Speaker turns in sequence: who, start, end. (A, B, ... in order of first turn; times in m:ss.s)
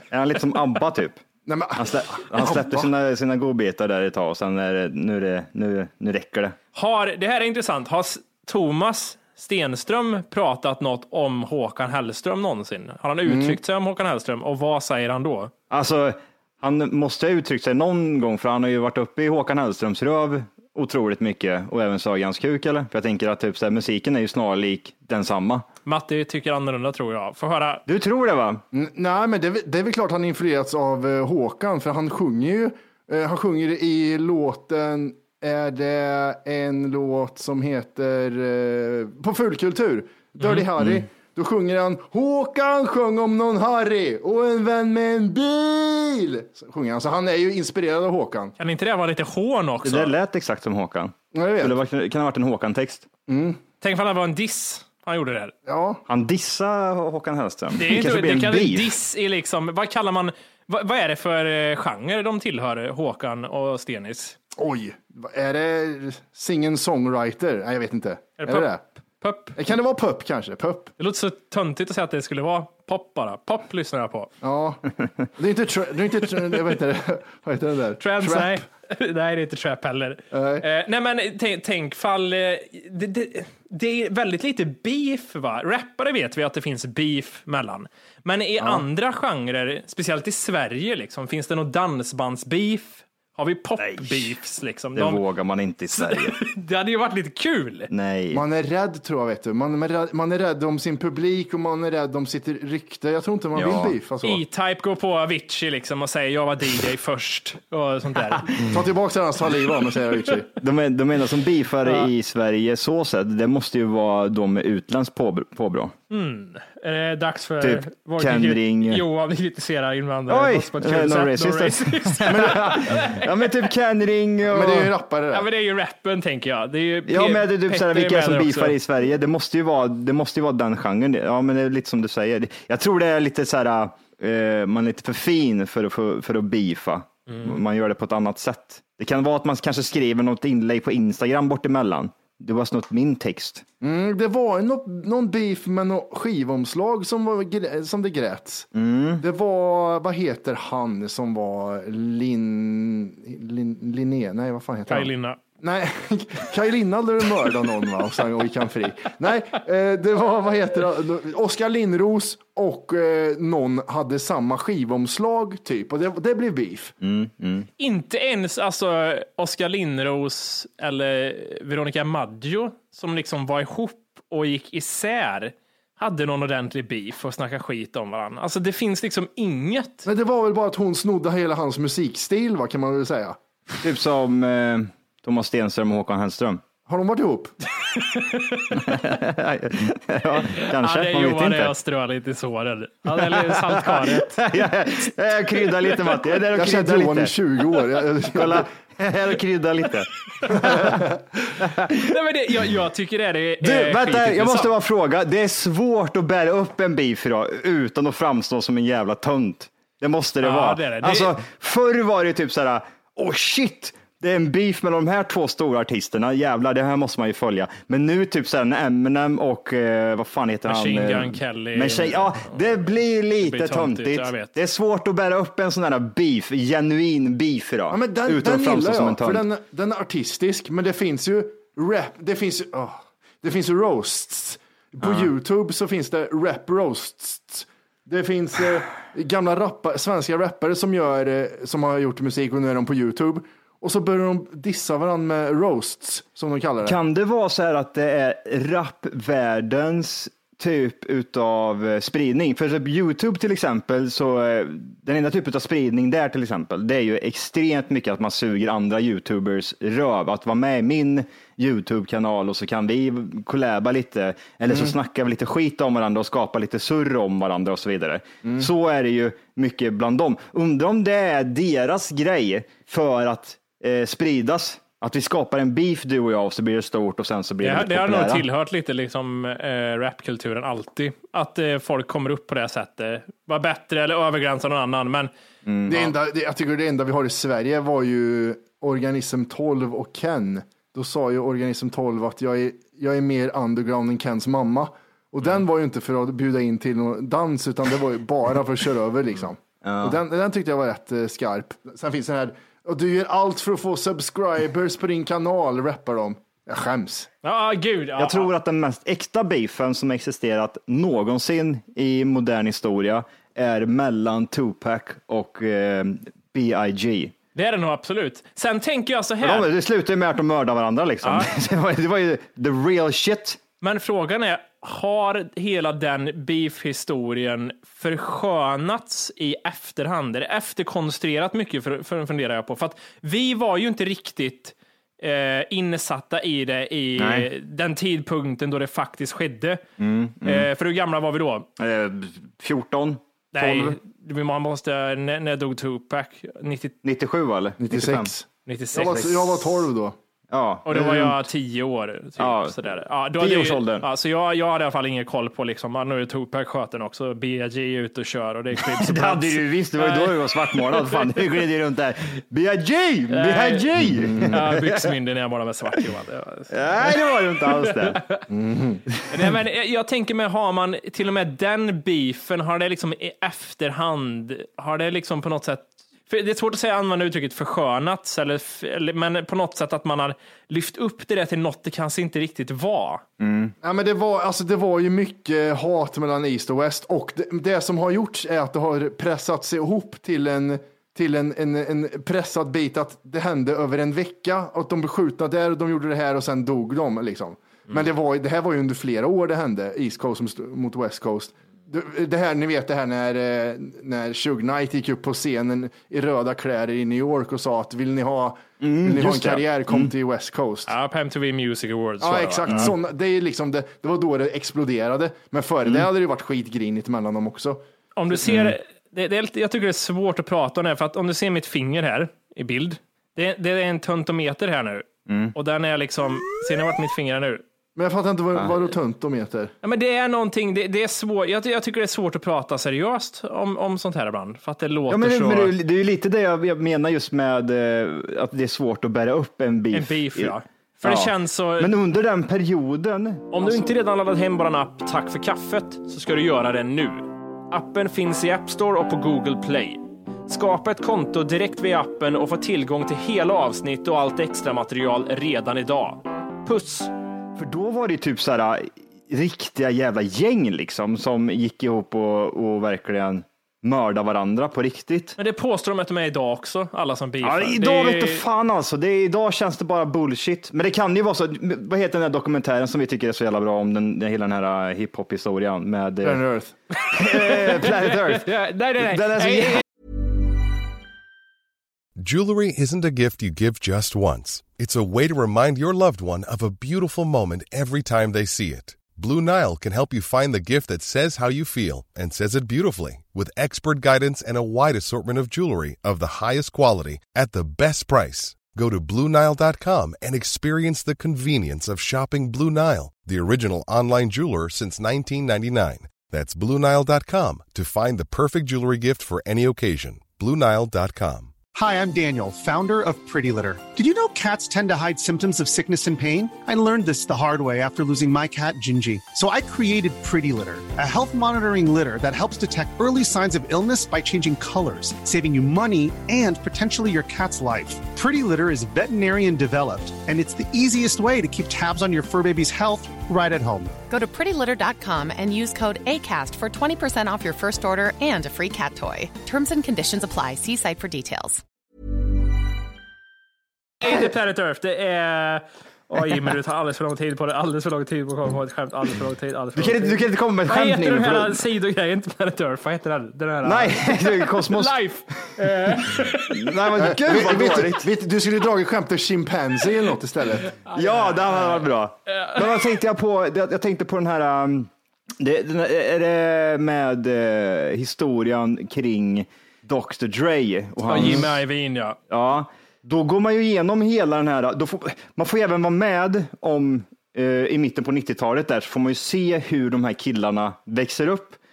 0:00.1-0:01.2 A
0:01.5-0:02.9 B
0:01.8-0:06.6 A
0:06.8-0:15.5 C
0:13.3-0:13.6 B
0:15.7-0:25.6 A
0:25.9-0:27.8 C
0:27.9-0:28.6 A
0:28.7-0:48.6 B
0:48.6-0:50.2 C
0:49.8-0:53.1 A
0:51.3-0:51.7 B
0:53.3-0:53.6 B
0:53.8-0:55.5 C
0:55.7-0:56.0 B
0:56.1-0:58.9 A
0:57.8-1:04.4 C
1:04.6-1:08.8 B
1:08.4-1:09.6 C
1:09.6-1:10.9 B
1:11.0-1:14.3 C
1:14.4-1:18.6 B
1:18.0-1:35.2 C
1:20.3-1:20.6 B
1:33.8-1:34.3 A
1:35.0-1:36.4 A
1:35.9-1:37.9 C
1:37.9-1:38.4 A
1:38.3-1:44.4 B
1:43.6-1:44.0 A
1:44.2-1:48.6 C
1:48.6-1:50.5 B
1:50.6-1:55.9 A
1:56.1-2:03.5 C
1:57.6-1:59.0 A
2:00.3-2:04.9 A
2:02.3-2:02.9 B
2:04.5-2:05.5 B
2:05.3-2:08.8 C
2:07.1-2:23.6 A
2:17.3-2:17.6 C
2:23.8-2:28.7 B
2:28.7-2:29.2 A
2:29.2-2:47.0 B
2:34.9-2:35.4 C
2:47.0-2:47.7 A
2:47.8-3:00.0 C
3:00.0-3:03.4 B
3:03.8-3:06.6 A
3:06.9-3:07.5 B
3:08.0-3:09.0 C
3:08.7-3:11.7 A
3:10.5-3:14.4 C
3:13.1-3:17.4 A
3:16.5-3:18.7 B
3:18.2-3:21.0 A
3:20.5-3:21.2 B
3:21.6-3:22.0 A
3:21.9-3:24.7 C
3:23.6-3:49.5 A
3:30.4-3:31.4 C
3:40.7-3:42.8 C
3:43.4-3:44.5 C
3:47.9-4:07.0 B
3:55.0-3:55.3 A
4:06.8-4:38.4 A
4:37.6-4:45.3 C
4:45.6-4:46.1 A
4:45.9-5:07.3 B
4:59.8-5:00.2 A
5:07.4-5:08.5 C
5:08.2-5:17.3 A
5:17.6-5:19.7 C
5:19.4-5:23.6 A
5:21.2-5:21.5 C
5:23.8-5:39.8 C
5:37.2-5:37.5 A
5:40.0-5:40.7 A
5:40.4-5:41.7 C
5:41.8-5:44.0 A
5:43.6-5:47.0 C
5:47.0-5:48.3 A
5:47.8-5:50.2 B
5:48.7-5:49.4 C
5:49.0-5:49.5 A
5:50.5-5:51.2 A
5:50.8-6:01.6 C
5:50.9-5:51.3 B
5:52.4-5:52.8 A
5:53.4-5:54.1 A
5:58.9-6:05.1 A
6:03.3-6:03.9 C
6:04.2-6:04.5 B
6:04.5-6:08.4 C
6:06.7-6:08.2 A
6:08.5-6:09.0 B
6:09.3-6:23.2 C
6:23.4-6:23.7 A
6:23.8-6:50.9 B
6:48.8-6:50.1 A
6:50.9-6:52.9 C
6:52.2-6:57.8 B
6:58.2-7:07.6 C
6:58.4-6:58.8 A
7:05.3-7:05.6 A
7:08.0-7:09.7 B
7:09.8-7:15.7 C
7:15.1-7:23.8 A
7:19.9-7:21.9 C
7:23.5-7:37.1 C
7:37.6-7:45.4 A
7:45.4-7:48.4 C
7:47.4-7:56.4 A
7:56.2-7:56.7 B
7:57.1-7:59.8 A
7:57.1-7:59.8 C
8:02.2-8:31.6 D
8:31.7-8:53.9 E
8:54.1-9:01.6 F
9:04.0-9:16.7 C
9:09.8-9:11.6 A
9:13.6-9:15.7 A
9:16.5-9:18.1 A
9:17.0-9:20.7 B
9:20.9-9:23.0 C
9:20.9-9:31.6 A
9:31.0-9:32.2 C
9:32.3-9:41.6 A